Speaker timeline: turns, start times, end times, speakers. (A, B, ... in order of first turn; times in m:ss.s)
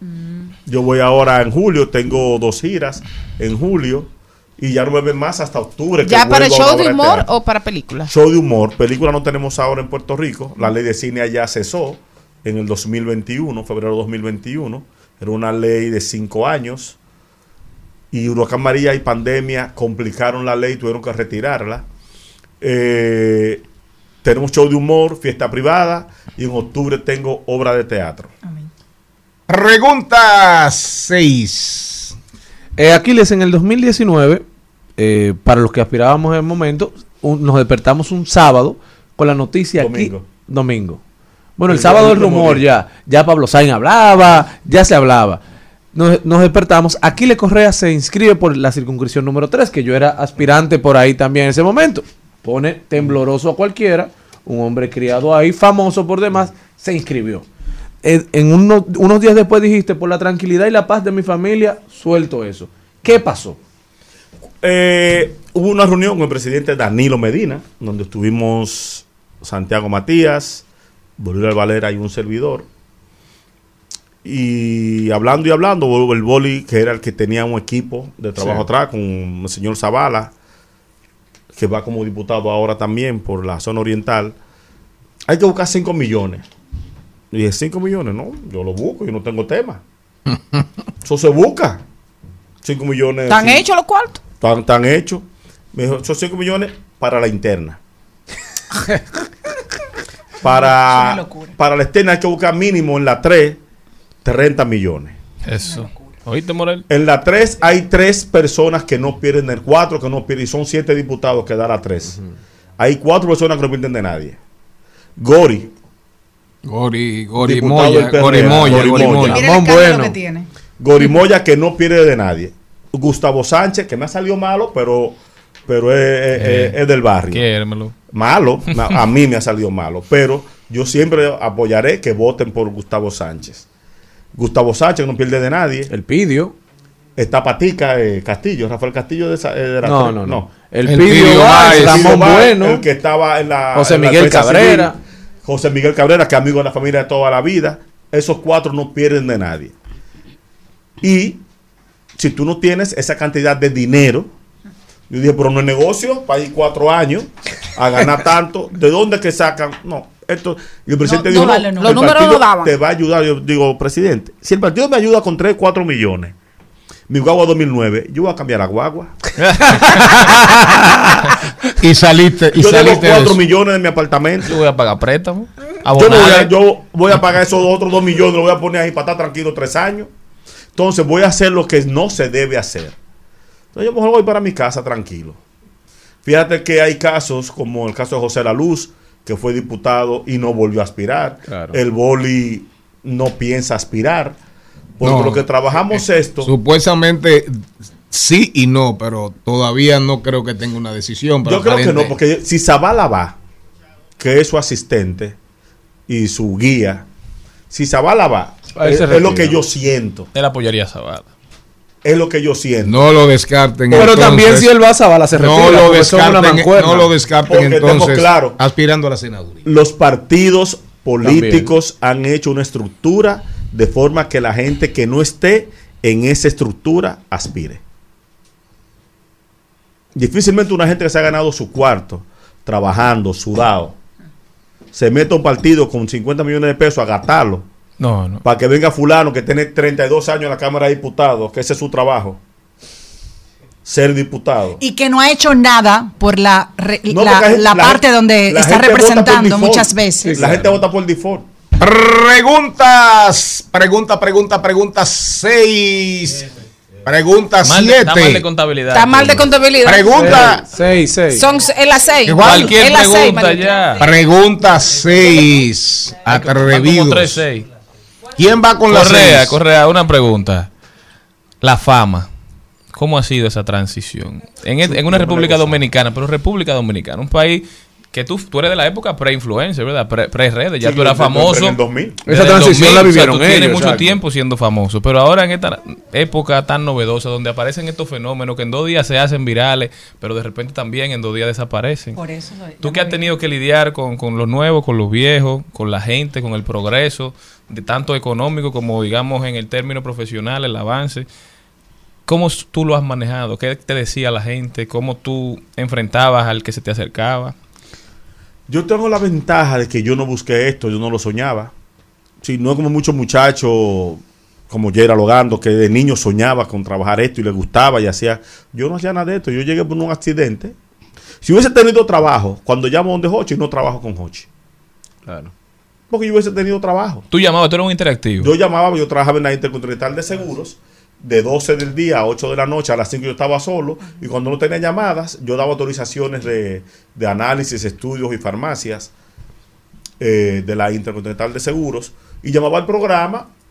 0:00.7-0:07.3 A
0:06.0-0:08.1 B
0:08.1-0:17.0 A
0:18.1-0:21.8 A
0:22.6-0:23.6 A
0:24.2-0:28.3 A
0:29.5-0:32.2 C
0:32.8-0:34.4 D
0:35.0-0:41.0 D
0:39.8-0:40.3 A
0:41.6-0:45.4 D
0:41.7-0:42.6 A
0:45.9-0:57.4 D
0:58.0-1:03.6 D
1:04.6-1:10.6 A
1:11.2-1:12.7 A
1:14.2-1:20.3 A
1:21.6-1:24.4 A
1:25.3-1:26.4 A
1:27.3-1:29.8 A
1:31.0-1:31.8 A
1:32.6-1:33.7 A
1:33.3-1:34.2 B
1:34.4-1:37.8 A
1:40.4-1:43.6 A
1:40.4-1:41.6 E
1:44.2-1:45.2 A
1:45.4-1:46.9 F
1:45.6-1:46.1 E
1:46.9-1:52.2 A
1:52.8-1:54.4 A
1:55.2-1:55.7 A
1:56.6-1:59.5 C
1:57.4-1:59.5 A
1:58.7-2:00.2 D
1:59.1-2:00.5 E
2:00.8-2:07.4 A
2:06.4-2:08.0 F
2:08.1-2:13.6 A
2:14.4-2:15.9 A
2:15.9-2:16.5 D
2:17.2-2:20.5 A
2:19.8-2:22.9 D
2:20.8-2:22.4 C
2:21.5-2:29.7 A
2:23.7-2:25.0 D
2:31.0-2:31.4 A
2:32.2-2:34.3 A
2:35.1-2:46.3 A
2:41.0-2:42.2 E
2:41.8-2:42.8 B
2:47.1-2:49.1 A
2:49.5-2:49.9 F
2:50.2-2:50.5 C
2:51.8-2:53.4 C
2:52.5-2:54.5 A
2:54.4-2:56.5 F
2:55.9-3:00.1 A
3:00.8-3:03.0 A
3:03.7-3:05.4 A
3:06.2-3:14.4 A
3:11.5-3:11.8 D
3:15.0-3:16.5 A
3:15.0-3:15.5 C
3:16.4-3:22.2 C
3:21.4-3:23.4 A
3:24.2-3:25.4 A
3:26.1-3:27.1 A
3:27.7-3:30.3 A
3:28.7-3:29.6 D
3:30.3-3:31.3 F
3:32.0-3:33.0 A
3:32.8-3:34.7 C
3:33.9-3:37.1 D
3:33.9-3:34.3 A
3:35.3-3:39.7 C
3:37.5-3:38.6 A
3:39.6-3:47.8 A
3:41.2-3:41.7 D
3:50.2-3:54.0 A
3:54.9-3:57.7 A
3:58.0-3:58.4 F
3:58.4-4:02.4 A
4:03.8-4:04.8 A
4:04.8-4:10.5 E
4:07.1-4:11.5 A
4:10.2-4:10.8 D
4:11.8-4:16.4 C
4:17.0-4:18.4 C
4:17.6-4:19.5 F
4:18.9-4:20.2 B
4:19.8-4:20.6 C
4:20.1-4:21.4 D
4:21.3-4:24.0 B
4:22.2-4:23.5 C
4:22.4-4:24.0 F
4:24.0-4:27.4 C
4:26.3-4:27.7 F
4:28.4-4:29.6 C
4:28.9-4:30.7 F
4:31.6-4:32.3 F
4:32.9-4:52.2 F
4:35.1-4:35.7 A
4:40.8-4:42.2 A
4:42.2-4:44.2 D
4:52.2-4:53.2 E
4:52.8-5:01.3 F
5:02.3-5:07.6 F
5:08.7-5:11.7 A
5:12.4-5:20.8 A
5:21.4-5:24.5 A
5:25.3-5:25.5 D
5:26.1-5:27.2 A
5:27.3-5:28.5 F
5:28.4-5:39.1 A
5:40.2-5:43.5 A